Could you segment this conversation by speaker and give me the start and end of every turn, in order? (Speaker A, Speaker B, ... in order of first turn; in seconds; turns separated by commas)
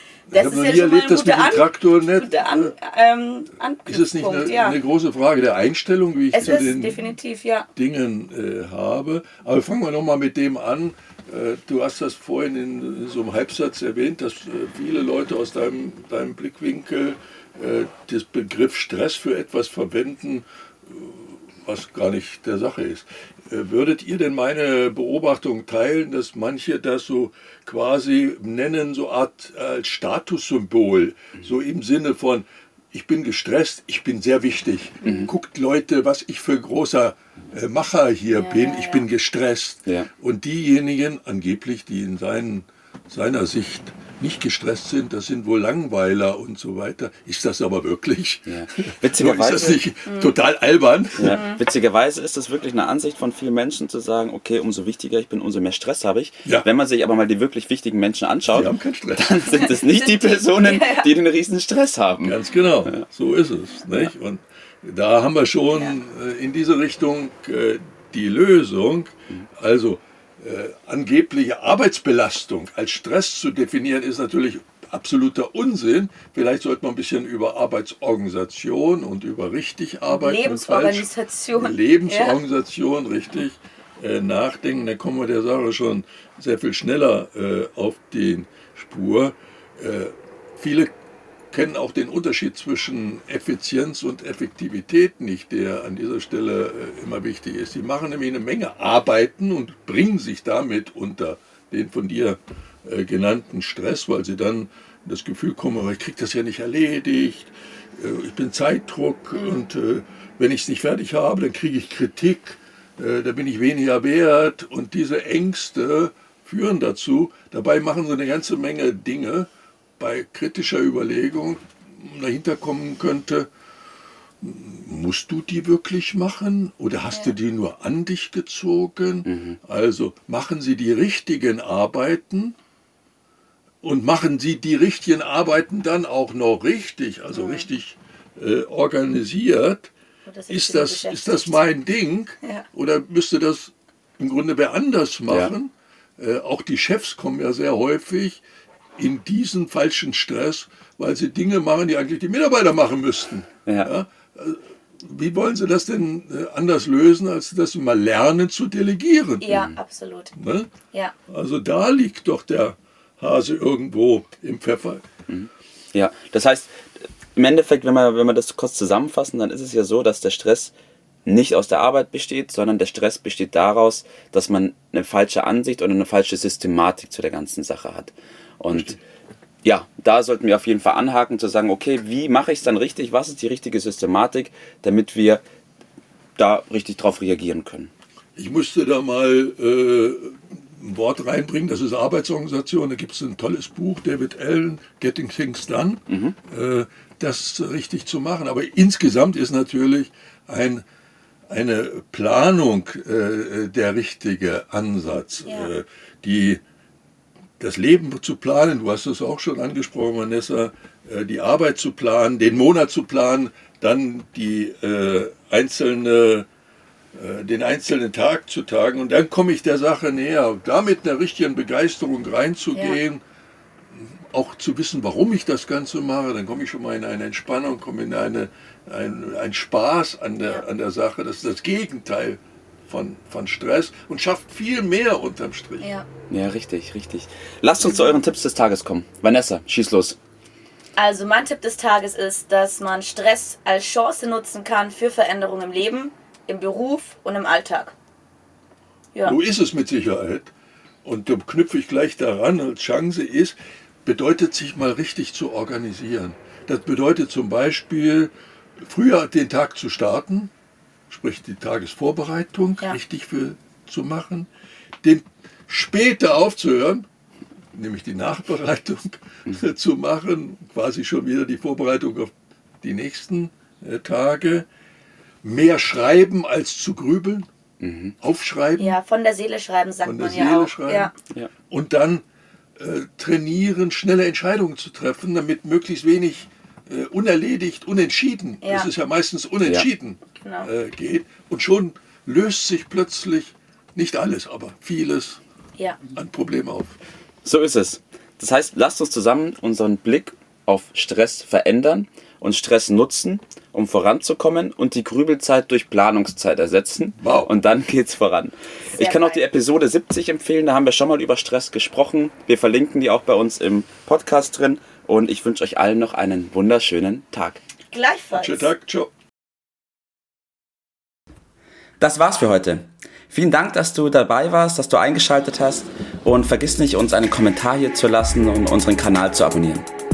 Speaker A: 0.3-2.8, Speaker B: 0.3-4.8, Speaker A: 3.9-7.0, Speaker B: 6.3-7.7, Speaker A: 7.8-51.4, Speaker B: 35.0-35.3, Speaker B: 38.3-39.1, Speaker C: 48.5-49.8, Speaker B: 50.1-50.4, Speaker C: 51.2-62.4, Speaker B: 51.2-51.6, Speaker A: 58.5-59.6, Speaker B: 59.5-61.1, Speaker A: 62.2-90.9, Speaker B: 80.1-82.4, Speaker A: 91.5-123.5, Speaker B: 109.3-109.7, Speaker A: 124.4-132.6, Speaker C: 129.2-129.6, Speaker A: 133.8-139.9, Speaker B: 137.3-137.7, Speaker B: 140.2-141.6, Speaker A: 140.5-148.4, Speaker C: 145.3-145.5, Speaker A: 149.0-159.6, Speaker C: 153.7-153.9, Speaker B: 159.4-160.3, Speaker C: 159.5-159.8, Speaker A: 160.4-160.7, Speaker A: 161.3-165.0, Speaker C: 165.3-166.8, Speaker C: 167.3-170.7, Speaker C: 171.2-179.0, Speaker A: 178.7-179.0, Speaker C: 179.6-185.4, Speaker C: 186.4-187.9, Speaker A: 188.4-200.8, Speaker C: 196.1-196.3, Speaker A: 201.5-206.6, Speaker B: 205.4-205.7, Speaker A: 207.6-216.5, Speaker A: 217.1-223.2, Speaker B: 222.7-223.0, Speaker A: 223.9-235.9, Speaker B: 235.8-236.1, Speaker C: 236.3-240.2, Speaker B: 241.0-247.9, Speaker A: 249.2-250.5, Speaker A: 251.0-260.5, Speaker A: 261.1-264.5, Speaker A: 265.0-267.1, Speaker A: 267.7-274.7, Speaker A: 275.4-277.5, Speaker C: 277.8-278.1, Speaker A: 278.2-279.0, Speaker B: 278.8-281.1, Speaker A: 280.0-281.1, Speaker A: 281.7-282.2, Speaker A: 282.8-295.4, Speaker B: 288.6-288.9, Speaker C: 289.6-289.9, Speaker B: 290.4-290.7, Speaker A: 296.1-297.0, Speaker C: 297.4-317.6, Speaker A: 307.2-307.5, Speaker B: 308.9-309.4, Speaker B: 317.9-318.7, Speaker A: 318.3-319.1, Speaker C: 322.0-329.9